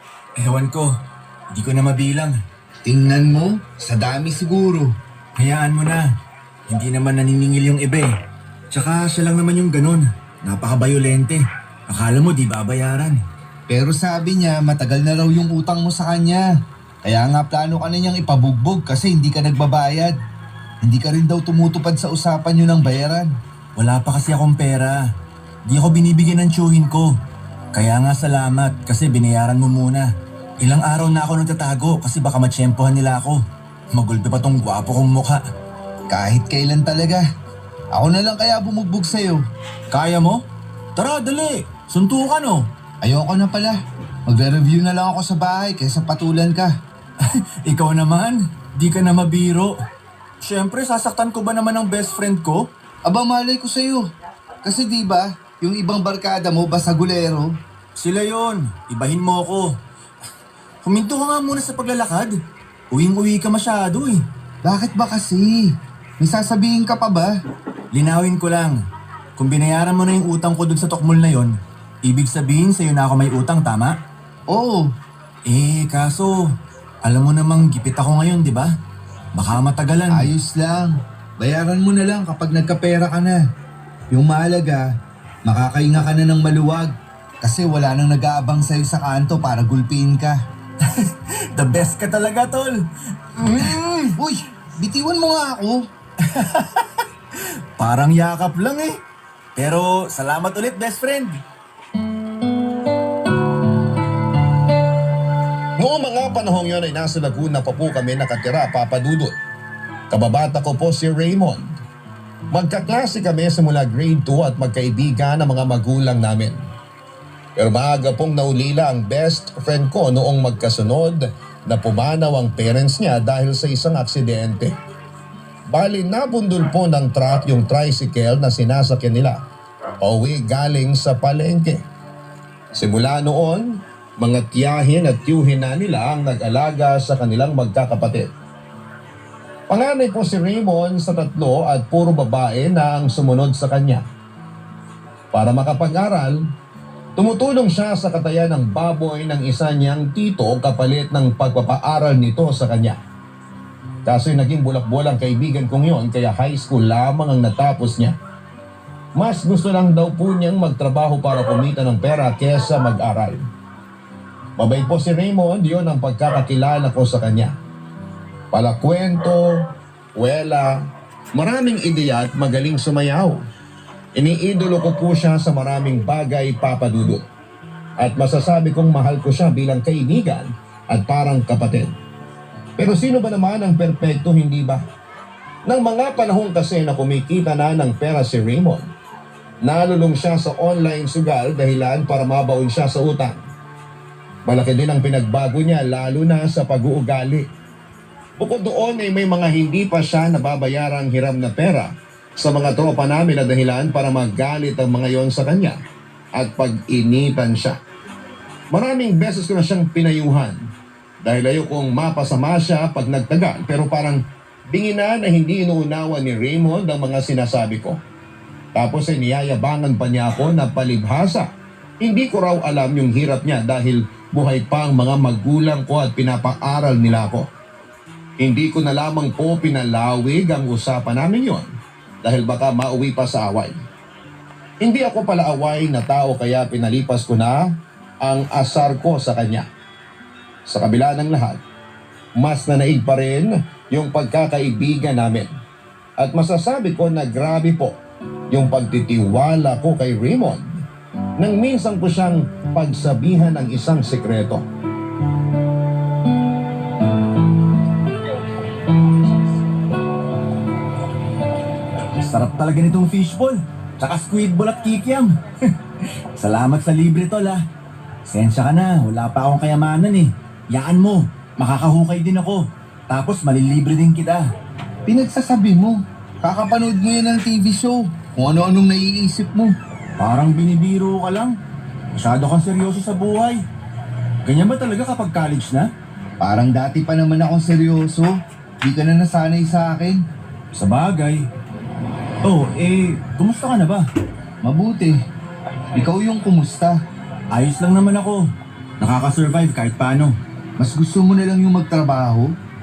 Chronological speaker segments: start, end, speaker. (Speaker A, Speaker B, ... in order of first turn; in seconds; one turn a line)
Speaker A: 0.4-0.9
Speaker A: 1.5-2.4
Speaker B: 2.8-4.9
Speaker A: 5.3-6.1
Speaker A: 6.7-8.1
Speaker A: 8.7-13.2
Speaker B: 13.7-16.5
Speaker B: 17.0-20.2
Speaker B: 20.8-23.4
Speaker A: 23.8-25.0
Speaker A: 25.6-27.1
Speaker A: 27.7-30.1
Speaker A: 30.6-33.4
Speaker A: 33.9-35.4
Speaker B: 36.1-37.2
Speaker B: 37.9-39.4
Speaker A: 39.9-40.4
Speaker A: 41.0-42.7
Speaker B: 43.0-46.7
Speaker A: 47.6-49.7
Speaker A: 50.4-52.7
Speaker B: 53.0-54.1
Speaker B: 54.6-57.5
Speaker A: 58.0-59.7
Speaker A: 60.8-62.3
Speaker A: 62.9-64.2
Speaker B: 64.6-67.3
Speaker A: 67.9-68.8
Speaker A: 69.4-71.5
Speaker A: 72.0-73.9
Speaker B: 74.5-74.9
Speaker A: 75.5-76.3
Speaker A: 77.0-78.7
Speaker A: 79.3-80.3
Speaker B: 80.1-83.4
Speaker B: 84.1-84.9
Speaker B: 85.5-90.4
Speaker A: 90.8-94.1
Speaker B: 94.1-95.9
Speaker A: 96.3-99.0
Speaker A: 99.5-101.4
Speaker C: 105.8-109.3
Speaker C: 110.1-111.8
Speaker C: 112.5-116.6
Speaker C: 117.5-124.7
Speaker C: 125.7-129.4
Speaker C: 130.0-131.8
Speaker C: 132.7-138.3
Speaker C: 139.7-144.0
Speaker C: 145.3-146.4
Speaker C: 147.2-153.0
Speaker C: 154.1-158.1
Speaker C: 159.2-163.4
Speaker C: 164.6-167.5
Speaker C: 168.5-169.6
Speaker C: 170.2-170.8
Speaker C: 171.3-173.4
Speaker C: 174.2-177.2
Speaker C: 178.0-181.9
Speaker C: 182.8-184.8
Speaker C: 185.7-188.8
Speaker C: 189.6-193.4
Speaker C: 194.4-197.4
Speaker C: 198.4-205.8
Speaker C: 206.3-207.8
Speaker C: 208.7-210.6
Speaker C: 211.2-218.0
Speaker C: 218.8-221.5
Speaker C: 222.0-227.5
Speaker C: 228.4-231.7
Speaker C: 232.2-233.8
Speaker C: 234.8-237.7
Speaker C: 238.2-239.6
Speaker C: 240.7-241.6
Speaker C: 242.4-245.5
Speaker C: 246.2-247.9
Speaker C: 248.5-250.8
Speaker C: 251.4-254.6
Speaker A: 262.1-265.3
Speaker A: 266.4-267.6
Speaker A: 268.3-274.4
Speaker B: 275.1-279.7
Speaker A: 280.2-281.6
Speaker A: 282.1-283.6
Speaker A: 284.4-285.9
Speaker B: 286.4-290.2
Speaker A: 290.7-291.5
Speaker A: 292.4-294.0
Speaker B: 294.6-295.2
Speaker B: 295.9-297.0
Speaker A: 297.5-298.4
Speaker A: 299.0-300.3
Speaker B: 300.8-302.5